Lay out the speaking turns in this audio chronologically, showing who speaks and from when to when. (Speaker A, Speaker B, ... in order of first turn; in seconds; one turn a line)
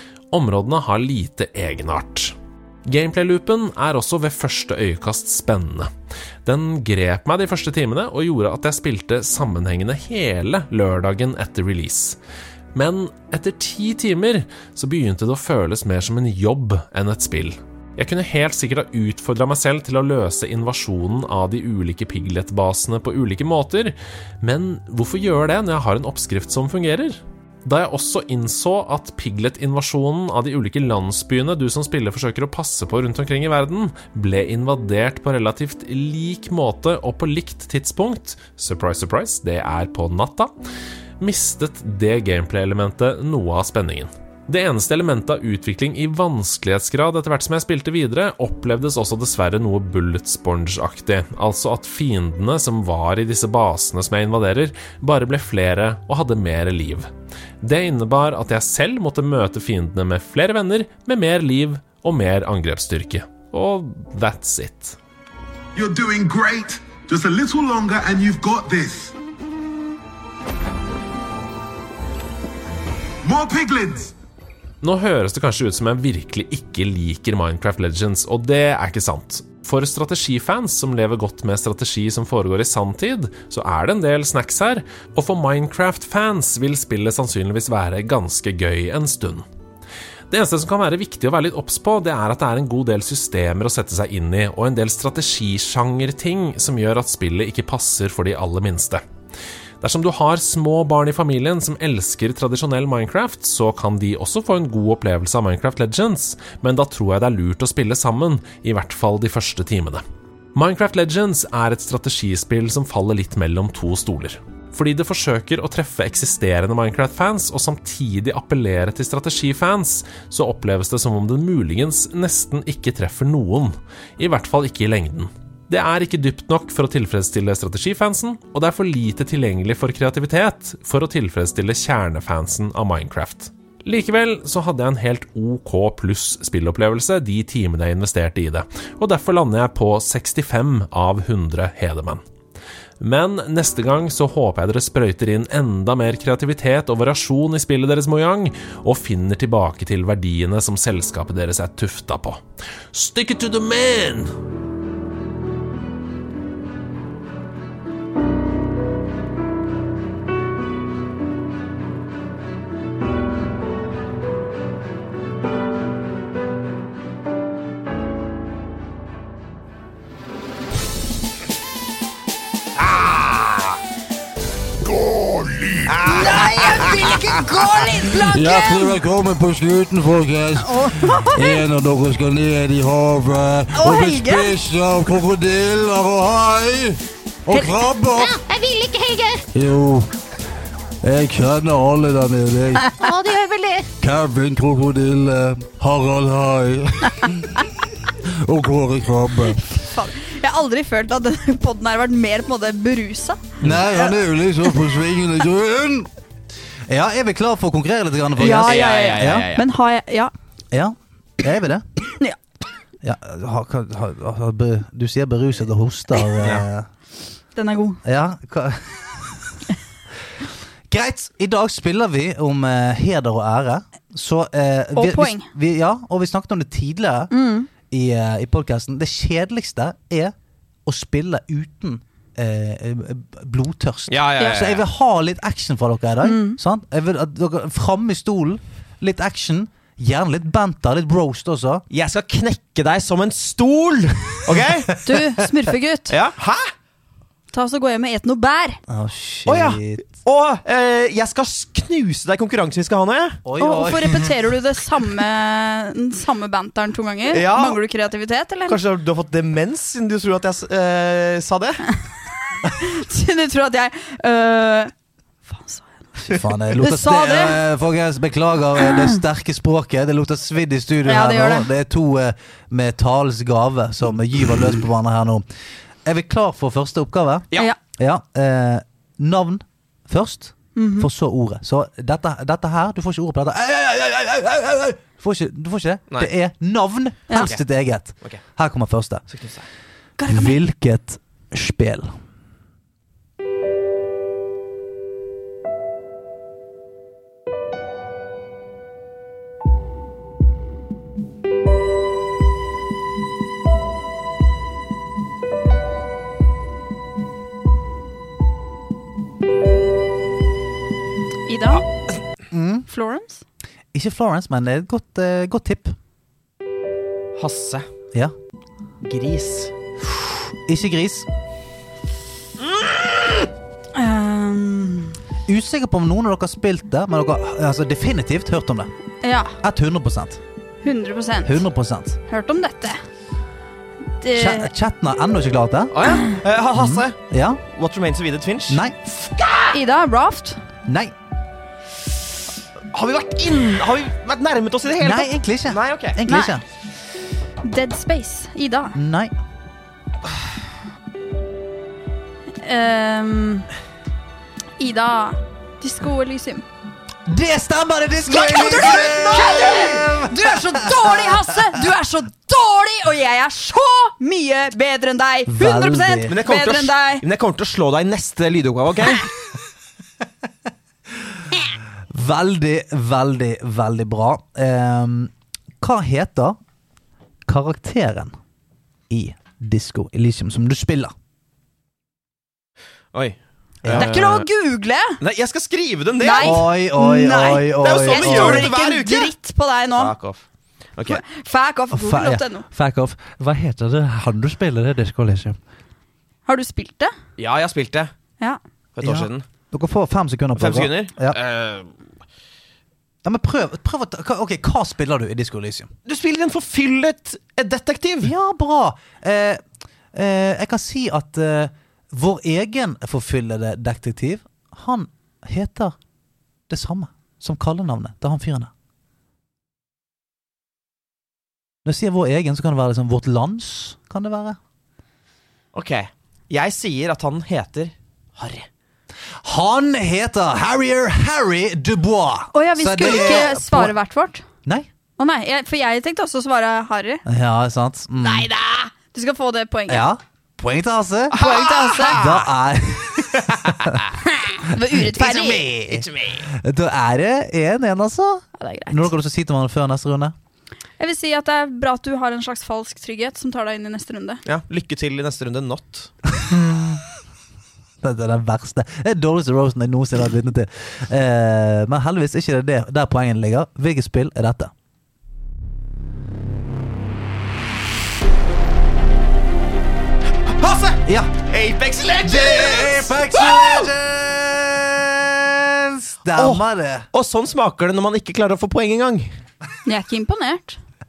Speaker A: 0.3-2.4
Speaker A: 2.9-5.9
Speaker A: 6.5-12.2
Speaker A: 12.7-40.5
Speaker A: 41.2-57.1
Speaker A: 57.6-65.0
Speaker B: 65.8-69.1
Speaker B: 73.2-74.1
Speaker A: 74.8-89.5
Speaker A: 90.3-99.0
Speaker A: 99.8-110.0
Speaker A: 110.5-142.2
Speaker A: 143.0-154.3
Speaker C: 175.3-176.1
Speaker D: 176.1-179.0
Speaker C: 178.2-188.4
Speaker D: 180.6-181.6
Speaker D: 183.8-184.6
Speaker E: 188.2-189.4
Speaker C: 189.5-190.1
Speaker C: 191.0-192.9
Speaker E: 193.0-193.9
Speaker C: 194.0-197.6
Speaker C: 198.4-199.6
Speaker D: 199.6-203.5
Speaker C: 203.6-206.1
Speaker F: 206.9-209.5
Speaker D: 208.4-210.3
Speaker G: 208.6-209.7
Speaker F: 210.7-211.8
Speaker F: 213.0-216.9
Speaker G: 216.4-216.7
Speaker D: 217.6-218.0
Speaker F: 218.0-219.6
Speaker F: 220.9-227.3
Speaker D: 225.0-225.5
Speaker D: 227.3-227.7
Speaker F: 227.9-230.3
Speaker F: 230.9-241.8
Speaker G: 234.1-234.8
Speaker D: 236.2-236.6
Speaker G: 241.9-245.0
Speaker D: 245.0-246.2
Speaker G: 246.1-246.7
Speaker D: 247.5-248.8
Speaker F: 248.9-250.0
Speaker G: 249.5-253.4
Speaker F: 253.4-254.3
Speaker D: 253.6-258.8
Speaker G: 257.3-257.8
Speaker G: 258.7-261.8
Speaker D: 262.7-264.9
Speaker D: 265.5-267.6
Speaker F: 266.3-275.4
Speaker D: 268.8-269.2
Speaker D: 271.1-271.7
Speaker F: 276.1-289.2
Speaker D: 280.8-281.1
Speaker G: 289.3-289.6
Speaker D: 290.2-290.6
Speaker F: 290.3-292.1
Speaker D: 311.5-311.9
Speaker F: 312.5-312.9
Speaker D: 312.9-313.4
Speaker F: 313.9-315.9
Speaker G: 317.4-317.9
Speaker G: 319.0-319.7
Speaker F: 320.7-321.3
Speaker D: 323.9-325.2
Speaker F: 325.5-328.9
Speaker D: 329.2-329.5
Speaker F: 329.6-330.4
Speaker D: 330.8-331.6
Speaker F: 331.4-332.2
Speaker D: 332.3-333.0
Speaker D: 334.2-334.7
Speaker F: 334.3-335.9
Speaker G: 335.9-337.2
Speaker F: 336.7-337.6
Speaker G: 337.7-339.7
Speaker F: 338.7-339.0
Speaker D: 339.7-340.6
Speaker F: 340.9-341.1
Speaker G: 342.9-346.2
Speaker F: 345.0-346.6
Speaker D: 346.3-346.6
Speaker D: 347.6-349.0
Speaker F: 348.9-349.3
Speaker D: 352.6-353.7
Speaker D: 354.8-356.6
Speaker F: 357.3-361.8
Speaker D: 358.3-367.2
Speaker F: 365.5-366.4
Speaker G: 366.3-369.2
Speaker F: 372.1-376.6
Speaker F: 377.5-378.3
Speaker F: 379.1-381.1
Speaker G: 383.1-384.5
Speaker F: 383.8-384.1
Speaker D: 384.0-385.2
Speaker G: 385.2-386.7
Speaker D: 386.2-390.1
Speaker F: 386.4-388.7
Speaker G: 387.8-389.3
Speaker G: 390.0-391.2
Speaker D: 391.1-392.7
Speaker F: 391.9-395.6
Speaker D: 396.5-397.1
Speaker G: 397.4-398.1
Speaker G: 399.0-399.4
Speaker F: 399.0-401.4
Speaker G: 400.6-401.9
Speaker F: 403.2-405.9
Speaker G: 406.1-408.3
Speaker F: 408.2-409.6
Speaker F: 410.1-415.9
Speaker F: 416.7-418.7
Speaker F: 421.9-424.6
Speaker G: 425.7-428.6
Speaker F: 429.4-433.9
Speaker D: 432.5-434.4
Speaker D: 435.2-437.2
Speaker F: 437.3-438.5
Speaker G: 438.2-438.9
Speaker D: 439.0-440.1
Speaker F: 439.9-441.4
Speaker D: 441.3-442.2
Speaker G: 441.3-442.5
Speaker F: 442.1-444.0
Speaker G: 443.4-444.1
Speaker D: 444.4-445.7
Speaker F: 444.9-450.4
Speaker G: 445.2-446.5
Speaker D: 448.6-449.1
Speaker D: 451.0-454.4
Speaker G: 454.5-456.1
Speaker F: 456.4-457.0
Speaker F: 458.0-464.7
Speaker G: 470.5-473.9
Speaker F: 471.1-471.3
Speaker F: 472.2-477.1
Speaker G: 476.4-479.3
Speaker D: 479.9-480.8